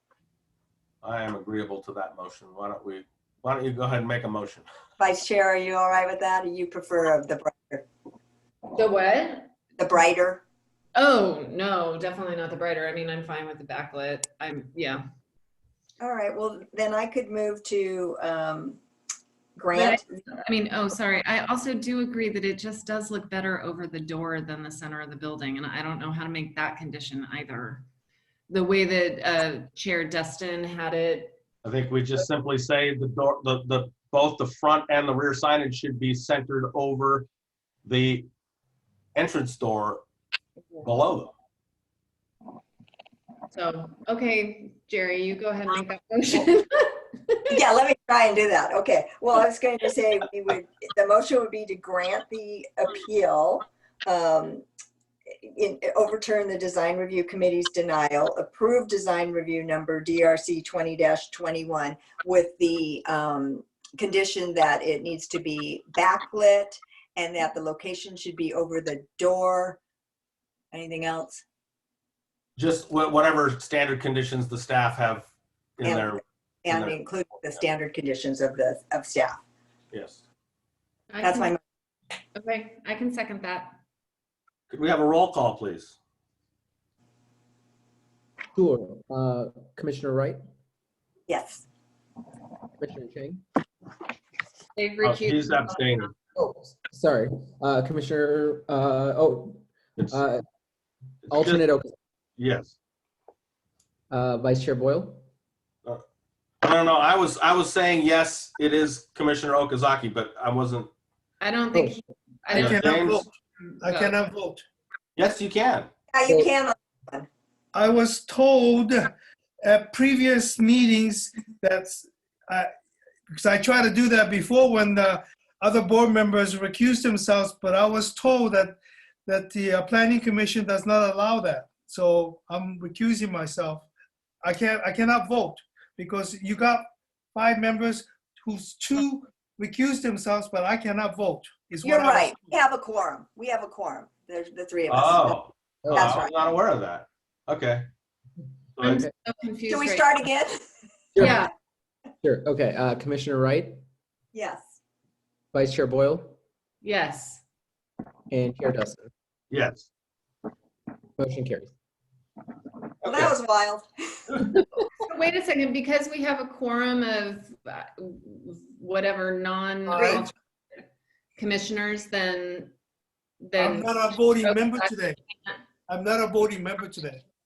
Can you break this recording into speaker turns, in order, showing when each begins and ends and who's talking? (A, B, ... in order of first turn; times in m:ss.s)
0:01.0-0:04.6 A
0:05.0-0:07.8 B
0:08.7-0:09.5 C
0:09.8-0:10.4 B
0:10.9-0:15.0 C
0:16.0-0:18.8 B
0:19.6-0:20.2 B
0:19.7-0:27.8 C
0:28.5-0:31.4 C
0:31.6-0:37.3 A
0:37.8-0:38.3 A
0:39.2-0:40.0 A
0:40.8-0:41.3 A
0:43.5-0:47.4 C
0:47.5-0:54.6 B
0:55.4-1:09.8 B
1:10.7-1:11.4 B
1:12.6-1:15.3 A
1:15.8-1:17.6 A
1:15.8-1:19.3 B
1:19.9-1:20.2 A
1:21.1-1:21.5 C
1:21.2-1:21.6 B
1:22.4-1:23.8 C
1:24.7-1:26.0 A
1:28.5-1:30.4 D
1:31.3-1:31.6 B
1:32.8-1:33.4 D
1:34.8-1:36.2 C
1:35.0-1:36.2 A
1:36.4-1:40.4 D
1:41.2-1:41.7 A
1:41.3-1:41.9 D
1:42.4-1:42.7 A
1:44.1-1:45.2 D
1:46.6-1:50.9 A
1:51.4-1:54.1 C
1:52.5-1:53.2 A
1:52.5-1:53.3 E
1:53.8-1:54.6 E
1:55.2-1:55.9 A
1:56.1-1:57.3 B
1:57.7-2:02.7 E
2:03.3-2:13.8 E
2:14.4-2:22.5 E
2:21.8-2:25.4 B
2:24.9-2:27.8 A
2:25.8-2:26.2 D
2:25.9-2:26.4 B
2:28.8-2:29.0 A
2:28.8-2:30.1 C
2:29.7-2:30.7 B
2:31.1-2:31.4 D
2:31.2-2:31.5 C
2:32.2-2:33.8 D
2:34.3-2:34.8 B
2:35.5-2:36.4 D
2:36.8-2:37.4 C
2:38.3-2:39.1 D
2:39.5-2:39.9 A
2:41.2-2:41.7 D
2:43.0-2:43.3 A
2:43.0-2:44.4 B
2:44.9-2:50.3 C
2:50.0-2:50.2 B
2:51.4-2:52.7 C
2:53.4-2:55.6 C
2:53.6-2:55.2 E
2:55.9-2:57.2 E